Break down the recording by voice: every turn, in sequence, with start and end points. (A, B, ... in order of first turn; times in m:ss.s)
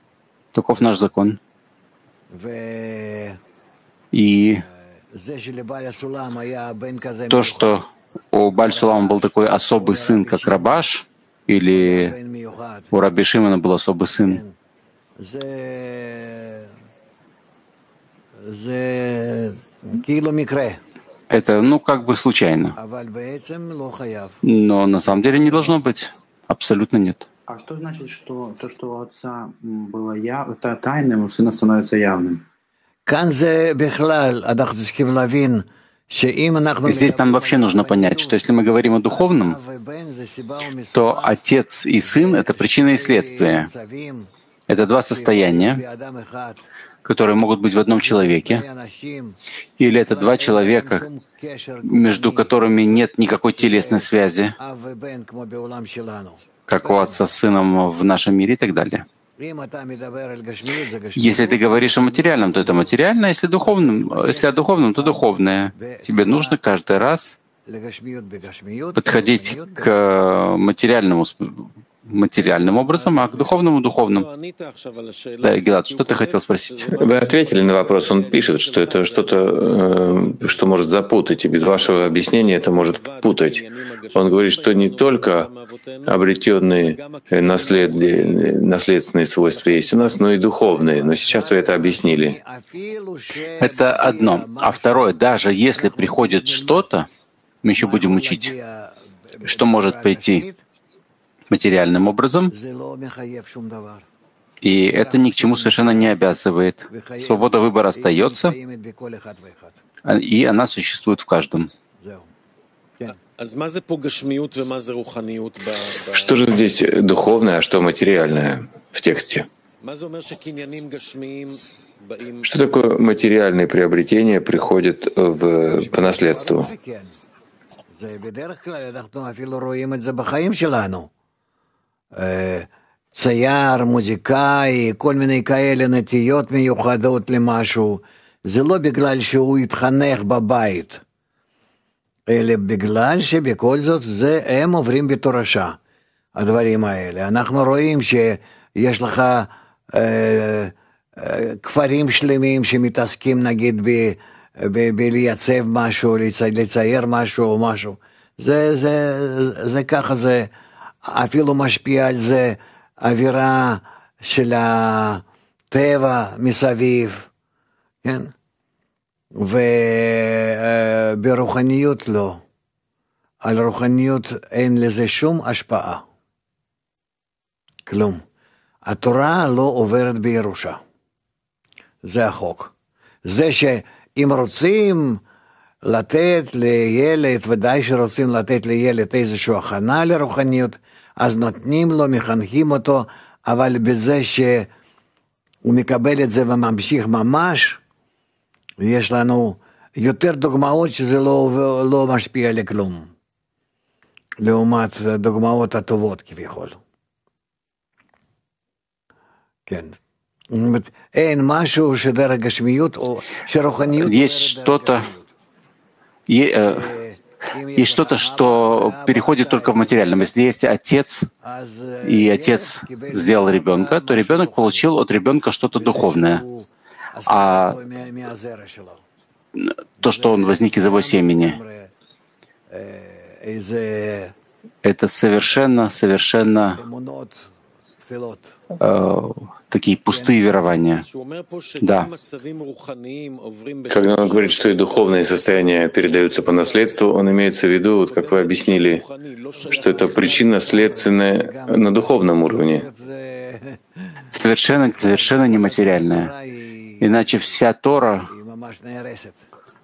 0:00.5-0:01.4 A
0:02.3-0:03.4 B
0:04.1-0:04.6 A
0:04.6-0:07.8 B
0:07.3-0:12.1 A
0:08.6-0:10.8 B
0:11.7-0:12.9 B
0:12.9-0:14.4 A
0:14.1-0:14.6 B
0:15.2-0:16.7 B
0:18.4-0:20.8 B
0:21.3-0:22.8 A
0:22.8-0:24.4 B
0:24.4-0:27.2 A
0:25.1-0:25.8 B
0:27.5-0:32.4 C
0:33.0-0:41.4 B
0:36.8-0:39.6 A
0:40.9-0:43.7 A
0:42.0-0:44.3 B
0:44.7-0:45.8 A
0:45.0-0:46.7 B
0:47.0-0:48.6 A
0:47.9-0:49.4 B
0:49.8-0:51.0 A
0:50.0-0:57.3 B
0:51.8-0:54.5 A
0:56.7-0:59.0 A
0:59.4-1:03.0 B
1:01.2-1:07.4 A
1:03.6-1:06.6 B
1:07.6-1:09.9 B
1:09.0-1:14.3 A
1:15.4-1:17.0 A
1:17.0-1:25.5 D
1:26.0-1:32.4 D
1:30.7-1:35.1 B
1:33.6-1:37.1 A
1:35.7-1:36.8 B
1:37.6-1:38.5 A
1:37.8-1:40.6 B
1:39.4-1:40.4 A
1:41.5-1:42.5 A
1:42.5-1:44.0 B
1:44.6-1:48.5 A
1:44.9-1:46.1 B
1:46.9-1:49.8 B
1:50.0-1:51.7 A
1:52.0-1:52.3 B
1:56.1-1:59.5 D
2:02.4-2:06.7 D
2:05.8-2:07.2 B
2:07.9-2:11.1 B
2:12.1-2:21.0 B
2:22.3-2:25.8 B
2:26.3-2:40.5 B
2:41.0-2:47.3 B
2:48.0-2:48.3 B
2:49.3-2:52.4 B
2:53.4-2:56.0 B
2:57.8-2:58.2 B
2:58.8-3:00.8 B
3:02.0-3:02.7 B
3:03.2-3:05.2 B
3:05.8-3:14.7 B
3:15.6-3:17.8 B
3:18.8-3:23.1 B
3:24.4-3:26.8 B
3:29.7-3:30.0 B
3:30.5-3:35.3 B
3:34.0-3:35.1 A
3:36.3-3:36.9 A
3:36.6-3:40.3 B
3:37.8-3:41.3 A
3:41.4-3:44.9 B
3:42.0-3:46.4 A
3:45.8-3:49.0 B
3:47.3-3:47.8 A
3:49.6-3:51.6 A
3:50.0-3:51.9 B
3:52.7-3:54.3 B
3:54.8-3:56.8 A
3:56.8-3:57.5 B
3:58.0-3:58.6 B
3:58.8-4:01.0 A
4:00.1-4:00.4 B
4:01.8-4:02.2 A
4:03.9-4:09.0 D
4:09.6-4:13.8 B
4:09.6-4:12.9 D
4:14.3-4:16.3 A
4:14.8-4:17.6 B
4:17.0-4:18.3 A
4:18.3-4:19.5 B